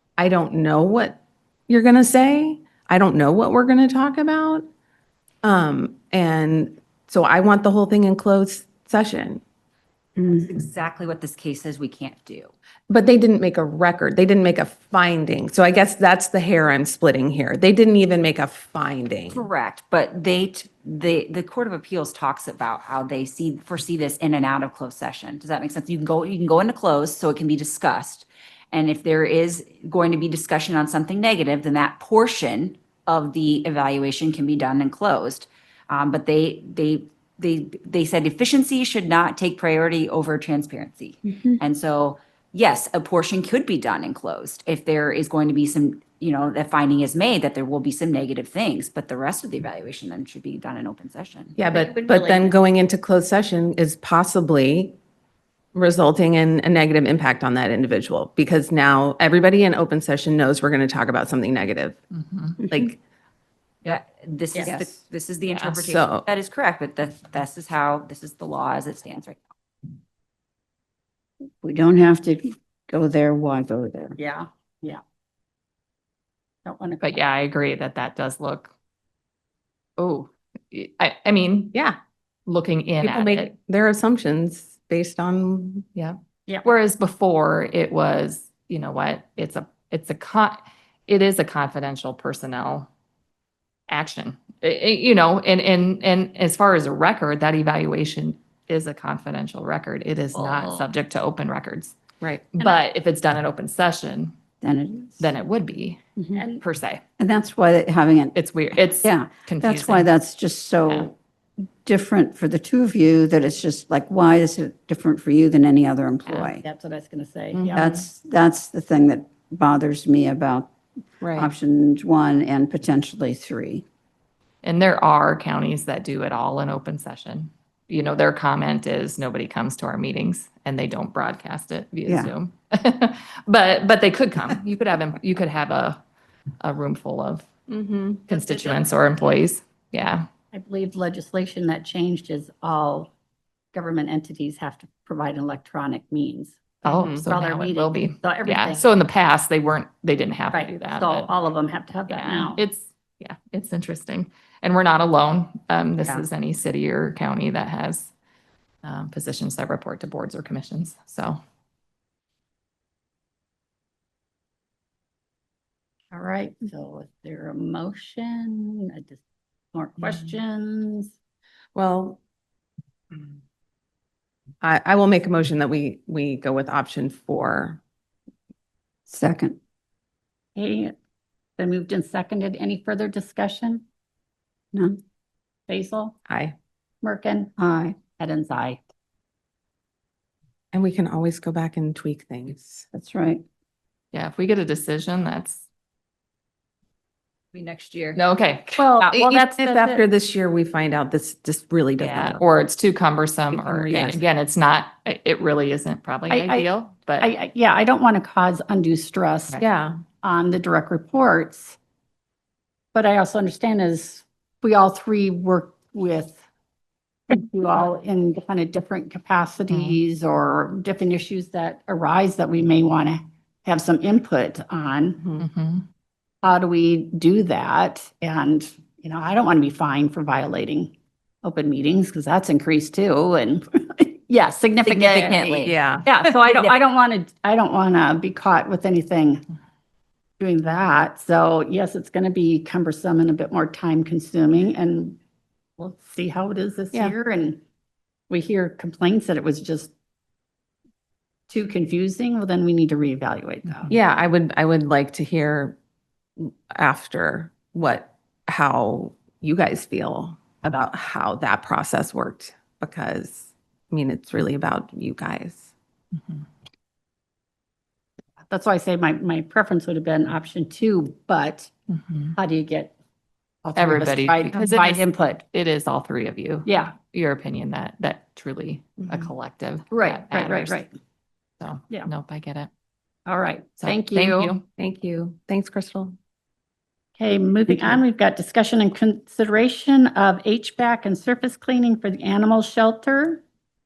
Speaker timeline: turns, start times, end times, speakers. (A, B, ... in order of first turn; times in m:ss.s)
0:00.2-0:04.7 A
0:05.4-0:09.4 A
0:10.2-0:10.5 B
0:10.3-0:12.5 C
0:12.9-0:19.5 A
0:19.3-0:51.6 C
0:51.6-0:55.0 A
0:51.7-0:52.5 D
0:55.7-1:02.0 A
1:02.1-1:02.6 E
1:02.7-1:03.0 A
1:03.8-1:09.4 C
1:04.6-1:04.8 D
1:04.6-1:05.0 B
1:05.5-1:05.8 E
1:05.8-1:06.3 A
1:11.6-1:14.2 B
1:14.2-1:15.0 D
1:16.6-1:17.2 D
1:17.0-1:18.7 E
1:20.0-1:21.7 E
1:22.5-1:23.5 E
1:23.0-1:25.8 A
1:26.0-1:32.9 E
1:33.9-1:42.0 E
1:40.4-1:40.8 D
1:42.6-1:44.4 E
1:44.6-1:45.4 B
1:45.2-1:46.0 E
1:46.3-1:46.6 D
1:46.6-1:47.0 E
1:47.2-1:48.4 B
1:48.3-1:50.1 E
1:48.9-1:51.2 B
1:51.8-1:56.6 B
1:56.3-1:56.6 E
1:56.6-1:57.8 D
1:57.5-1:58.0 A
1:57.8-2:00.7 B
2:01.2-2:01.5 A
2:01.3-2:03.8 B
2:04.6-2:16.0 E
2:12.1-2:12.3 B
2:16.6-2:17.5 E
2:17.7-2:18.2 A
2:18.3-2:20.3 E
2:18.3-2:18.8 D
2:20.5-2:23.1 D
2:23.7-2:28.9 D
2:26.8-2:31.3 E
2:26.9-2:27.2 A
2:30.5-2:32.6 D
2:32.1-2:38.1 E
2:38.8-2:41.4 E
2:46.1-2:49.2 D
2:49.7-2:51.1 D
2:51.8-2:52.2 A
2:54.6-2:57.8 A
2:59.1-2:59.6 B
3:00.6-3:01.0 D
3:01.6-3:03.8 D
3:04.7-3:05.0 B
3:05.7-3:06.2 D
3:06.3-3:06.5 A
3:07.0-3:07.5 D
3:07.6-3:08.0 B
3:08.1-3:08.8 D
3:10.7-3:12.9 A
3:12.9-3:13.4 B
3:14.1-3:15.6 E
3:17.6-3:18.2 C
3:18.2-3:20.0 E
3:18.8-3:19.6 D
3:19.1-3:22.4 A
3:22.0-3:27.3 E
3:23.5-3:24.2 A
3:26.3-3:26.7 D
3:27.2-3:29.6 D
3:29.6-3:30.0 A
3:30.2-3:31.8 D
3:32.9-3:36.4 D
3:37.3-3:45.2 D
3:39.7-3:40.0 E
3:45.2-3:45.4 A
3:45.4-3:45.9 E
3:46.4-3:59.4 D
3:54.8-3:55.7 C
3:55.6-3:56.0 A
3:56.5-3:56.8 C
4:00.4-4:05.2 D
4:05.8-4:07.6 D
4:08.3-4:09.9 D
4:11.5-4:13.9 D
4:13.7-4:13.9 E
4:13.9-4:15.8 A
4:16.4-4:25.7 A
4:26.2-4:26.4 E
4:28.5-4:31.7 D
4:31.9-4:32.4 E
4:32.4-4:32.9 D
4:33.6-4:35.4 D
4:33.8-4:40.8 E
4:36.7-4:37.0 D
4:39.9-4:40.9 D
4:41.6-4:42.7 E
4:43.3-4:44.6 D
4:43.8-4:44.6 E
4:44.8-4:46.2 A
4:47.2-4:53.4 D